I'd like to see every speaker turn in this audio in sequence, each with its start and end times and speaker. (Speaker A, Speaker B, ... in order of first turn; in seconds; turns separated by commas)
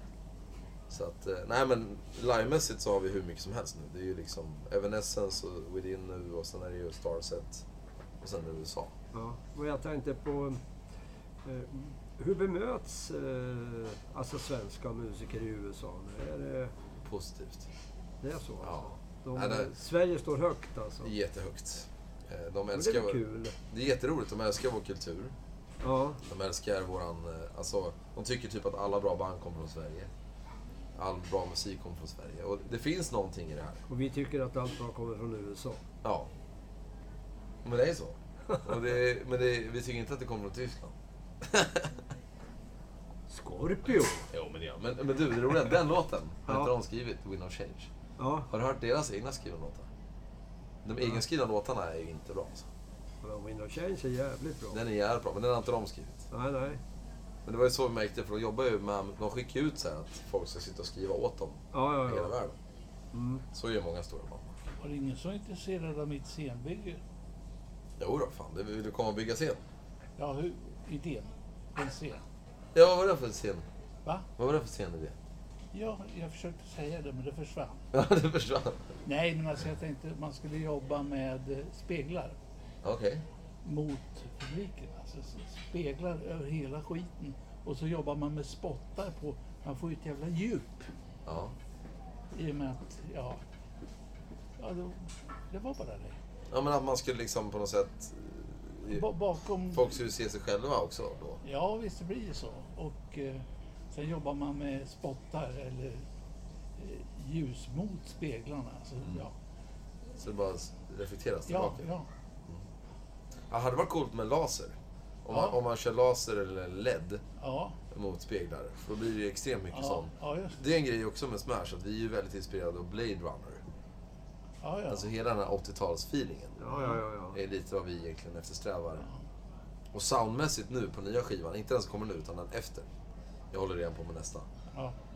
Speaker A: 0.9-7.6, Speaker A: 8.2-8.9, Speaker B: 9.1-10.6, Speaker B: 11.4-16.7, Speaker A: 17.0-17.7, Speaker B: 18.2-21.1, Speaker A: 18.6-19.7, Speaker A: 21.0-25.3, Speaker B: 22.7-23.6, Speaker B: 25.8-26.2, Speaker A: 26.2-30.1, Speaker A: 30.9-33.8, Speaker B: 33.9-35.8, Speaker A: 36.0-36.3, Speaker A: 37.6-42.0, Speaker B: 43.3-44.3, Speaker A: 44.3-47.9, Speaker B: 46.5-46.7, Speaker B: 48.2-48.5, Speaker A: 48.5-49.9, Speaker A: 50.8-52.7, Speaker B: 53.2-54.8, Speaker A: 54.7-56.3, Speaker B: 56.3-56.8, Speaker A: 57.5-62.6, Speaker B: 61.7-62.3, Speaker B: 63.1-63.4, Speaker A: 63.5-64.7, Speaker C: 64.8-67.0, Speaker A: 68.0-69.6, Speaker C: 70.2-72.2, Speaker A: 72.7-73.7, Speaker A: 74.4-75.2, Speaker C: 75.7-77.8, Speaker A: 77.9-78.9, Speaker C: 79.0-82.4, Speaker A: 82.8-83.2, Speaker C: 83.6-90.9, Speaker A: 91.2-91.5, Speaker C: 92.3-93.4, Speaker C: 94.6-96.2, Speaker A: 96.5-99.1, Speaker C: 98.9-99.9, Speaker A: 99.7-101.4, Speaker C: 101.4-106.0, Speaker C: 106.8-109.3, Speaker A: 110.2-111.9, Speaker C: 111.5-112.1, Speaker A: 113.5-117.2, Speaker C: 117.4-117.8, Speaker A: 117.9-123.6, Speaker C: 119.7-120.6, Speaker C: 124.6-125.0, Speaker A: 124.9-126.6, Speaker B: 126.6-127.4, Speaker C: 126.7-127.0, Speaker A: 127.3-129.1, Speaker A: 129.9-132.9, Speaker A: 133.5-134.5